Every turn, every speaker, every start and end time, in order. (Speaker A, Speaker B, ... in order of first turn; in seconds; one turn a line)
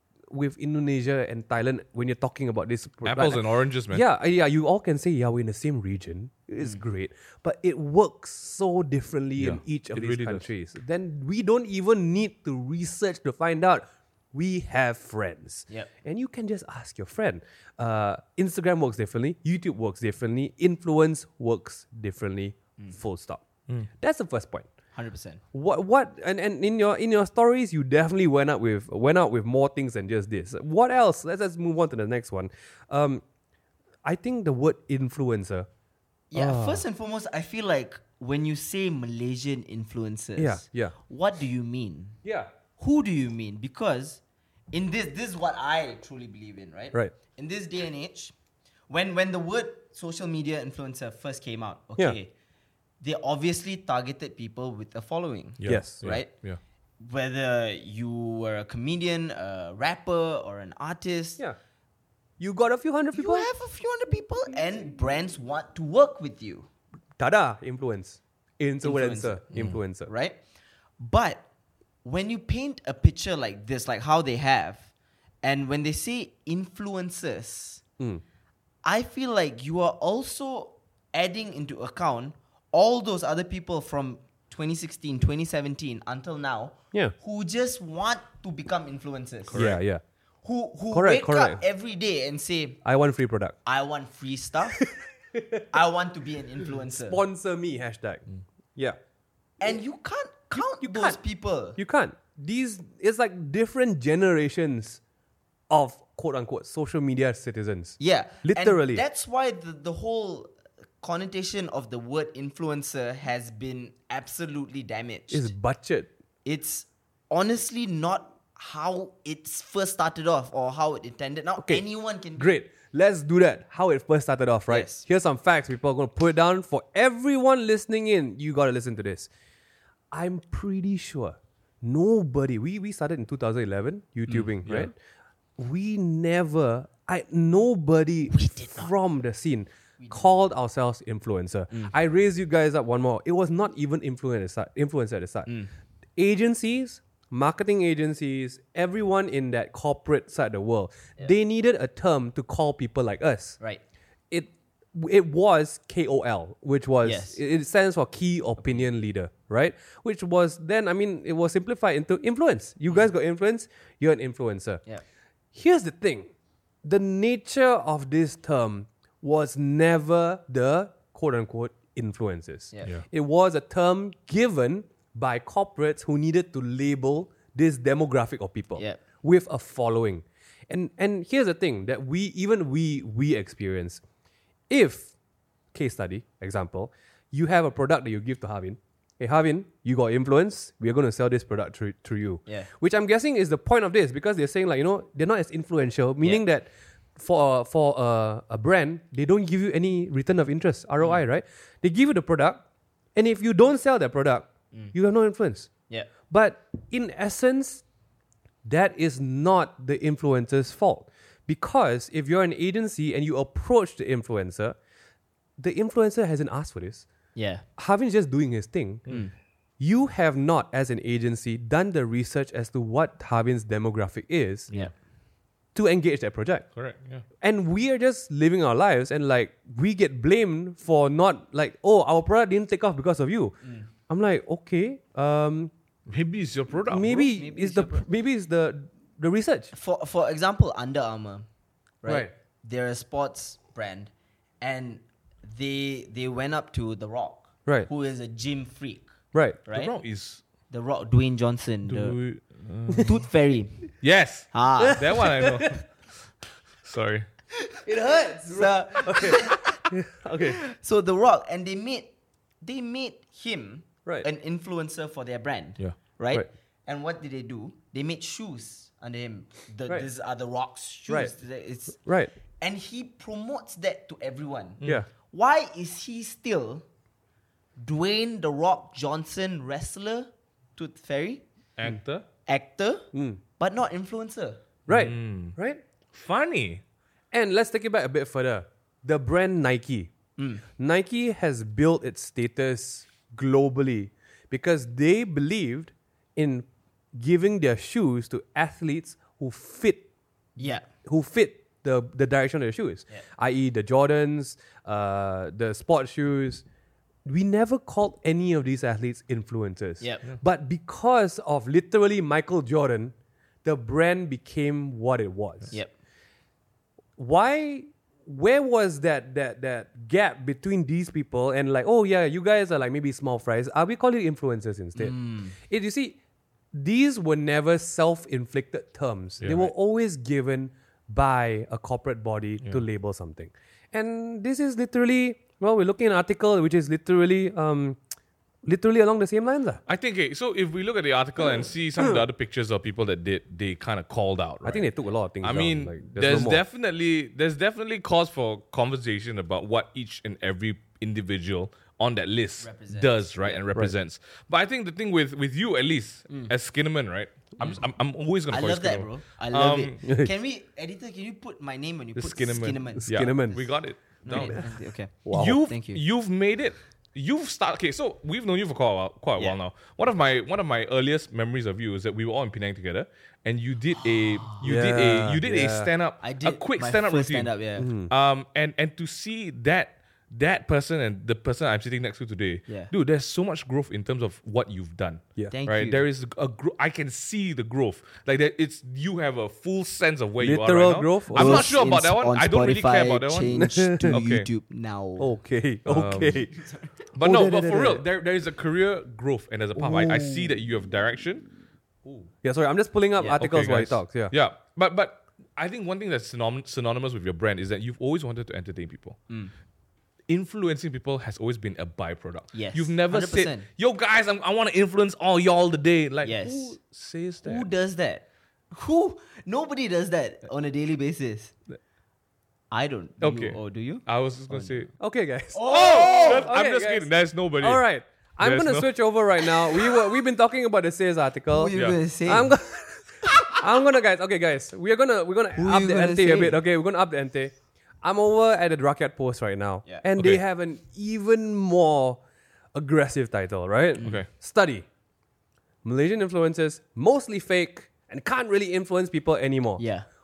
Speaker A: 0.3-24.7
Speaker B: 3.0-4.0
Speaker B: 9.4-10.5
Speaker C: 24.9-25.4
Speaker A: 25.5-33.2
Speaker A: 34.0-35.7
Speaker C: 36.3-42.2
Speaker A: 36.4-36.8
Speaker A: 40.4-40.9
Speaker A: 42.2-42.5
Speaker C: 42.8-44.2
Speaker C: 44.7-48.3
Speaker C: 48.9-52.3
Speaker C: 53.0-56.3
Speaker B: 55.6-56.6
Speaker A: 55.6-56.0
Speaker C: 57.0-61.4
Speaker A: 62.4-63.5
Speaker C: 63.1-66.7
Speaker A: 67.2-70.1
Speaker C: 68.8-70.4
Speaker C: 71.0-71.4
Speaker C: 72.0-74.9
Speaker C: 75.4-77.8
Speaker C: 78.8-89.6
Speaker B: 89.5-89.8
Speaker A: 89.5-90.0
Speaker C: 90.4-92.8
Speaker A: 90.9-91.6
Speaker A: 92.8-93.6
Speaker C: 93.6-94.8
Speaker A: 94.8-95.6
Speaker C: 95.7-97.2
Speaker A: 96.6-98.2
Speaker C: 99.6-101.8
Speaker A: 100.5-101.2
Speaker A: 101.8-105.0
Speaker A: 105.7-109.0
Speaker C: 108.0-115.5
Speaker A: 115.3-116.1
Speaker C: 116.4-122.6
Speaker A: 122.4-129.3
Speaker C: 124.7-125.0
Speaker A: 130.1-134.9
Speaker B: 134.6-134.9
Speaker A: 135.6-145.5
Speaker C: 138.3-138.9
Speaker C: 140.0-140.2
Speaker A: 146.2-153.6
Speaker A: 154.3-164.8
Speaker C: 157.0-157.4
Speaker A: 165.5-166.3
Speaker A: 166.8-184.0
Speaker C: 172.7-173.0
Speaker A: 184.7-185.1
Speaker A: 185.7-202.6
Speaker A: 203.1-205.7
Speaker A: 206.3-207.8
Speaker A: 208.6-214.8
Speaker A: 215.6-217.1
Speaker C: 217.3-217.6
Speaker A: 217.8-219.1
Speaker A: 219.8-224.7
Speaker A: 225.7-226.7
Speaker B: 226.7-227.2
Speaker A: 227.4-233.6
Speaker C: 233.6-233.9
Speaker A: 234.1-235.7
Speaker B: 236.1-237.3
Speaker A: 236.9-239.7
Speaker C: 237.2-238.1
Speaker C: 239.7-241.5
Speaker C: 242.0-249.1
Speaker C: 249.7-249.9
Speaker B: 249.7-250.4
Speaker C: 250.7-252.2
Speaker B: 251.9-253.2
Speaker C: 253.0-253.9
Speaker B: 254.0-255.8
Speaker C: 254.5-255.1
Speaker A: 254.8-255.8
Speaker B: 256.8-257.3
Speaker A: 257.9-260.6
Speaker C: 258.5-259.9
Speaker C: 260.4-262.1
Speaker C: 262.6-272.0
Speaker A: 272.1-272.3
Speaker C: 272.6-274.8
Speaker A: 274.8-275.1
Speaker C: 275.3-276.9
Speaker C: 277.8-281.4
Speaker B: 281.8-282.2
Speaker C: 282.4-284.6
Speaker A: 283.1-283.4
Speaker A: 284.9-285.8
Speaker B: 284.9-285.6
Speaker B: 286.1-286.8
Speaker A: 287.3-290.1
Speaker C: 290.4-290.6
Speaker A: 290.8-300.1
Speaker C: 300.6-300.9
Speaker A: 300.6-306.6
Speaker A: 307.2-315.7
Speaker C: 310.0-310.2
Speaker A: 317.2-326.2
Speaker C: 324.9-325.6
Speaker A: 326.7-338.0
Speaker B: 329.4-329.7
Speaker A: 338.6-339.8
Speaker B: 339.9-344.9
Speaker A: 341.6-342.2
Speaker A: 344.6-346.6
Speaker B: 345.4-360.0
Speaker C: 352.6-353.6
Speaker C: 358.5-363.5
Speaker A: 360.0-360.3
Speaker A: 362.2-363.6
Speaker B: 362.2-364.7
Speaker C: 364.2-366.0
Speaker A: 364.3-365.6
Speaker B: 365.3-377.5
Speaker C: 374.0-374.6
Speaker A: 374.6-375.9
Speaker C: 376.2-377.9
Speaker A: 377.8-378.1
Speaker B: 378.1-394.5
Speaker C: 385.5-386.0
Speaker A: 390.4-391.7
Speaker C: 391.4-395.3
Speaker A: 393.5-394.2
Speaker A: 395.2-396.6
Speaker B: 395.9-396.4
Speaker C: 396.5-396.9
Speaker B: 397.1-401.5
Speaker A: 397.2-398.1
Speaker A: 399.7-400.6
Speaker B: 402.1-402.3
Speaker A: 402.4-404.3
Speaker C: 403.2-403.4
Speaker B: 403.3-409.2
Speaker B: 410.3-417.7
Speaker C: 412.5-413.6
Speaker C: 416.2-416.7
Speaker C: 417.4-421.5
Speaker C: 422.7-424.8
Speaker B: 423.2-424.9
Speaker A: 425.0-427.1
Speaker C: 425.5-426.5
Speaker B: 425.6-427.8
Speaker A: 427.6-431.7
Speaker B: 428.4-428.9
Speaker C: 431.5-432.6
Speaker A: 432.2-442.2
Speaker C: 433.2-433.6
Speaker C: 435.6-436.6
Speaker B: 440.2-440.4
Speaker A: 442.7-444.9
Speaker B: 444.0-444.3
Speaker A: 445.8-449.8
Speaker C: 449.8-450.1